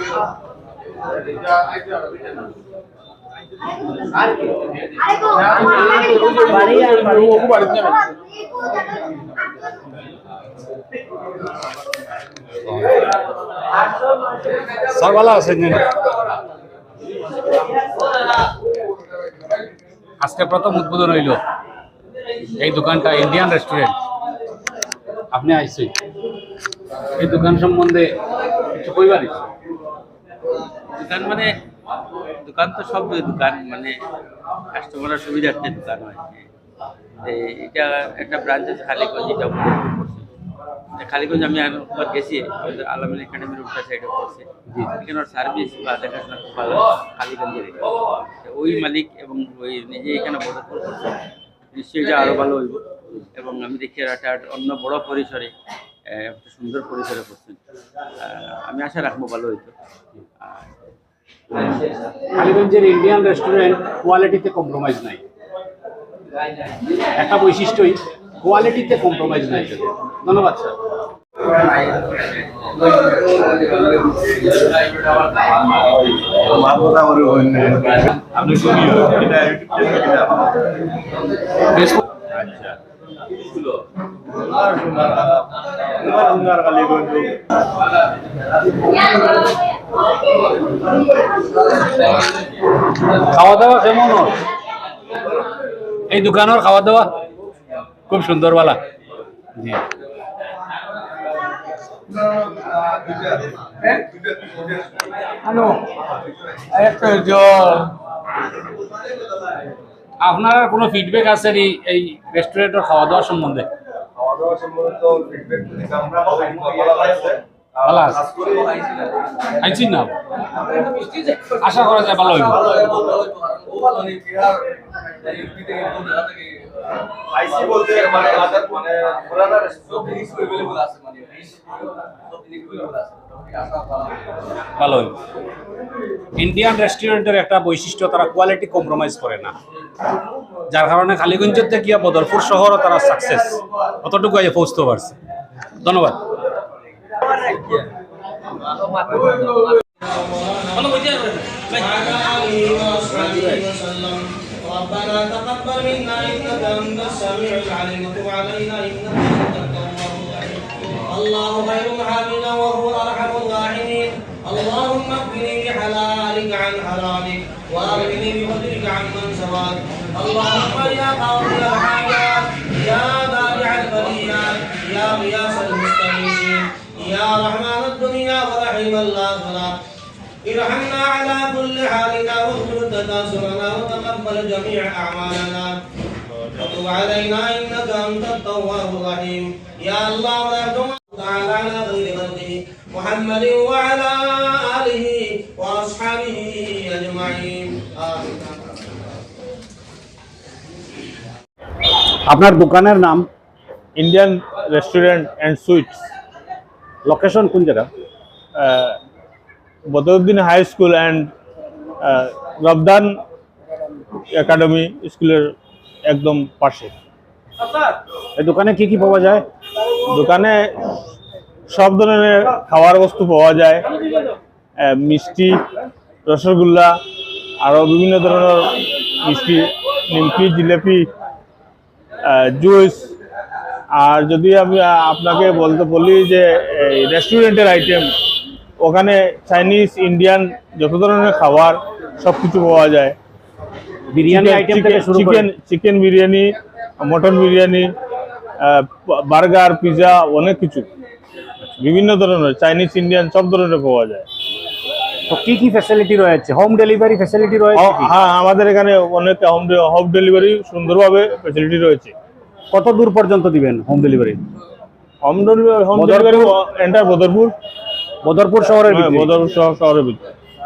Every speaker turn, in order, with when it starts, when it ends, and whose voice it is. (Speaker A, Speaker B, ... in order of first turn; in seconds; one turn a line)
Speaker A: 6.5-6.9
Speaker A: 12.6-13.1
Speaker A: 14.8-15.9
Speaker A: 20.2-21.4
Speaker A: 22.5-23.9
Speaker A: 25.3-25.9
Speaker A: 27.1-28.1
Speaker A: 28.7-29.5
Speaker B: 31.0-31.5
Speaker B: 32.4-34.0
Speaker B: 34.7-36.5
Speaker B: 37.2-40.2
Speaker B: 41.0-47.9
Speaker B: 48.4-51.2
Speaker B: 51.7-55.5
Speaker B: 56.1-57.6
Speaker B: 58.2-59.7
Speaker A: 62.3-65.2
Speaker A: 67.1-70.8
Speaker C: 76.7-77.4
Speaker D: 77.1-77.9
Speaker D: 78.5-79.5
Speaker C: 79.5-80.0
Speaker C: 86.1-87.1
Speaker A: 93.1-94.3
Speaker A: 96.1-97.1
Speaker A: 98.1-98.8
Speaker A: 110.2-113.7
Speaker C: 114.6-117.4
Speaker A: 117.8-118.4
Speaker A: 119.6-120.1
Speaker A: 120.9-123.1
Speaker C: 127.4-129.2
Speaker A: 134.8-135.2
Speaker A: 136.4-139.5
Speaker A: 140.7-145.2
Speaker A: 145.8-146.2
Speaker E: 150.0-179.8
Speaker E: 180.4-185.8
Speaker E: 186.4-198.7
Speaker A: 202.2-203.3
Speaker D: 203.9-206.0
Speaker A: 207.0-207.9
Speaker D: 208.6-209.0
Speaker D: 209.9-211.3
Speaker D: 212.0-213.2
Speaker D: 214.3-215.5
Speaker D: 216.1-216.9
Speaker A: 218.4-219.4
Speaker D: 220.1-221.0
Speaker D: 221.7-223.8
Speaker D: 224.8-225.6
Speaker D: 226.3-227.0
Speaker D: 227.6-231.1
Speaker D: 232.2-233.1
Speaker D: 233.9-238.1
Speaker D: 238.8-243.2
Speaker A: 244.1-245.5
Speaker D: 244.3-247.9
Speaker D: 248.6-250.9
Speaker D: 251.8-254.2
Speaker A: 255.3-258.1
Speaker D: 257.7-262.1
Speaker A: 262.7-264.4
Speaker D: 265.2-267.5
Speaker A: 265.9-266.6
Speaker A: 268.2-269.4
Speaker D: 268.8-270.3